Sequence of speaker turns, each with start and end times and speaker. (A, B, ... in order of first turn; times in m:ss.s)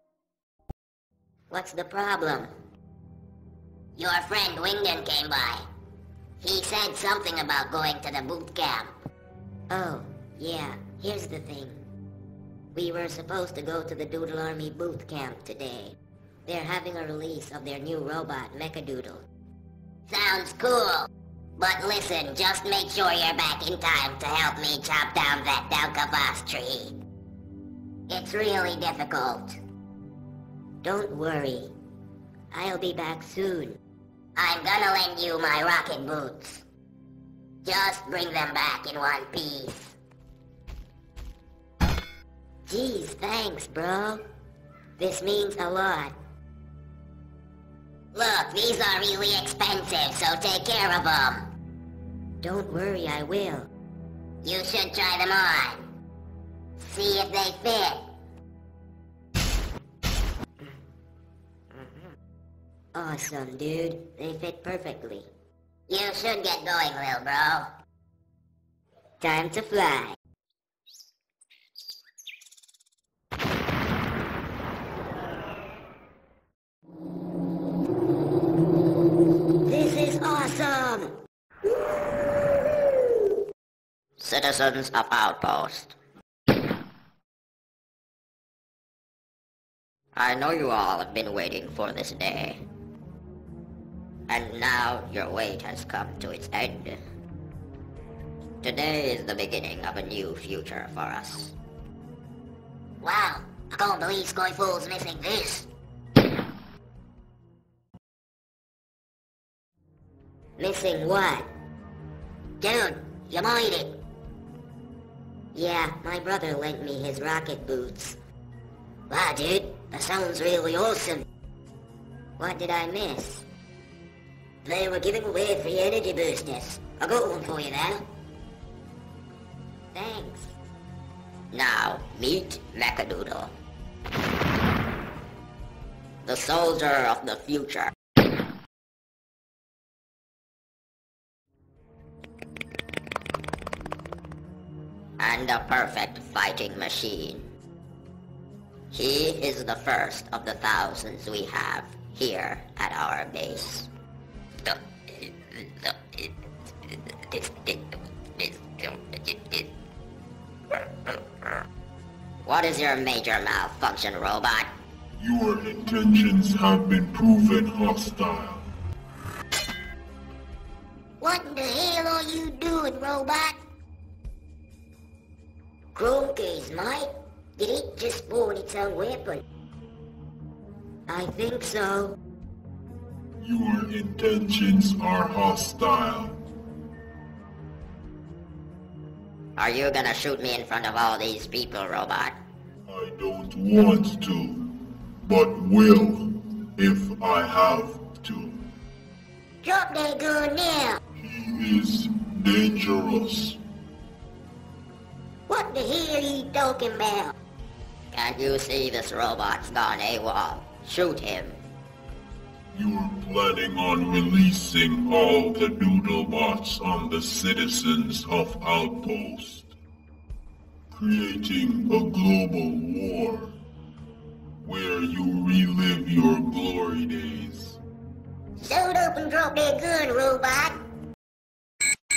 0:01.5-0:02.5 A
0:04.0-0:05.6 A
0:06.4-0:08.9 A
0:09.7-0:11.8 A
0:12.7-0:19.2 A
0:20.1-0:27.0 A
0:28.1-0:29.6 A
0:30.8-0:31.7 A
0:32.5-0:33.8 A
0:34.4-0:36.6 A
0:37.6-0:40.0 A
0:42.6-0:44.2 A
0:45.0-0:46.1 A
0:48.1-0:51.4 A
0:52.4-0:53.7 A
0:54.4-0:55.9 A
0:56.8-0:58.0 A
1:02.9-1:05.3 A
1:05.9-1:07.7 A
1:09.2-1:10.2 A
1:19.6-1:21.2 A
1:24.2-1:25.9 B
1:30.1-1:32.6 B
1:34.3-1:37.0 B
1:38.6-1:41.5 B
1:43.0-1:45.7 A
1:50.6-1:51.5 A
1:52.6-1:54.0 A
1:55.5-1:58.2 A
1:59.1-2:01.2 A
2:02.4-2:03.5 A
2:04.6-2:08.0 A
2:09.9-2:10.6 A
2:11.5-2:13.5 B
2:16.2-2:17.9 B
2:25.2-2:27.5 B
2:28.9-2:33.9 B
2:34.6-2:36.3 B
2:37.3-2:39.7 B
2:42.4-2:44.7 B
2:45.2-2:48.7 C
2:51.2-2:53.6 A
2:55.9-2:59.4 A
3:01.1-3:02.2 A
3:03.4-3:06.4 C
3:09.6-3:12.3 B
3:12.8-3:18.6 C
3:19.6-3:21.0 A
3:21.2-3:23.6 C
3:25.5-3:27.3 A
3:28.1-3:31.6 B
3:32.7-3:39.7 C
3:40.9-3:43.6 C
3:44.6-3:47.8 C
3:48.6-3:50.8 A